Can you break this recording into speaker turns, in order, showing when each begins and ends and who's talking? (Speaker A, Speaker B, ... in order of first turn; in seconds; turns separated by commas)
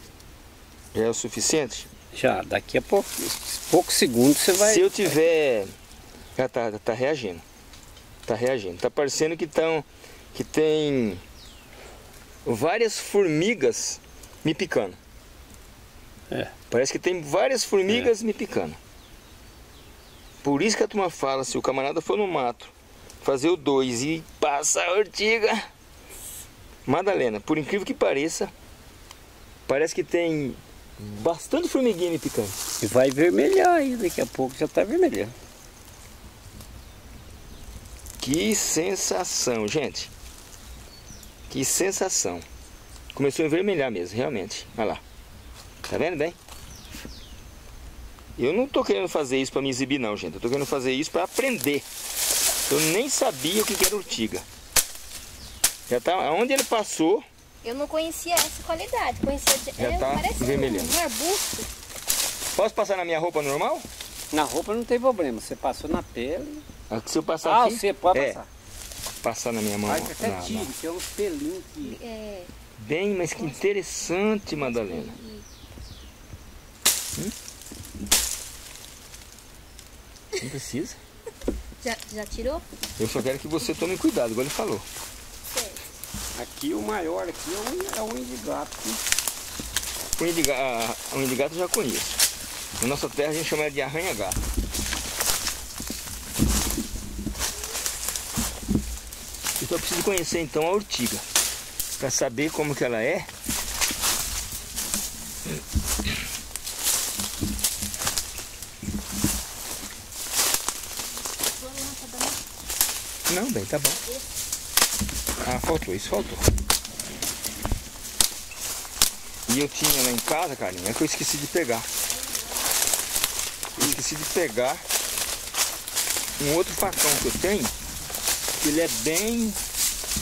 Speaker A: 0.9-1.9, Speaker B: 2.1-5.2, Speaker A: 4.6-5.7, Speaker A: 6.3-7.4, Speaker A: 8.2-11.2, Speaker A: 12.4-15.0, Speaker A: 16.7-18.8, Speaker A: 20.4-25.7, Speaker A: 26.9-28.5, Speaker A: 29.7-32.6, Speaker B: 32.8-35.3, Speaker A: 38.2-40.1, Speaker A: 41.5-42.4, Speaker A: 43.1-45.0, Speaker A: 45.8-46.4, Speaker A: 48.4-51.8, Speaker A: 52.7-54.4, Speaker A: 55.9-57.2, Speaker C: 57.6-61.7, Speaker A: 59.8-61.0, Speaker A: 62.5-63.9, Speaker B: 64.3-66.6, Speaker A: 66.9-68.4, Speaker B: 67.4-68.5, Speaker A: 69.2-70.7, Speaker B: 69.8-72.0, Speaker C: 71.8-72.5, Speaker A: 72.8-75.2, Speaker C: 74.6-75.4, Speaker A: 80.4-81.0, Speaker C: 81.8-82.6, Speaker A: 83.0-84.8, Speaker C: 85.5-85.9, Speaker B: 86.3-89.0, Speaker A: 90.2-92.2, Speaker A: 92.8-94.4, Speaker A: 99.6-101.2, Speaker A: 102.0-103.3, Speaker C: 111.4-112.4, Speaker A: 113.3-114.0, Speaker C: 114.0-114.2, Speaker A: 115.4-116.4, Speaker A: 119.5-121.9, Speaker A: 123.8-124.8, Speaker A: 126.4-127.7, Speaker A: 128.6-129.6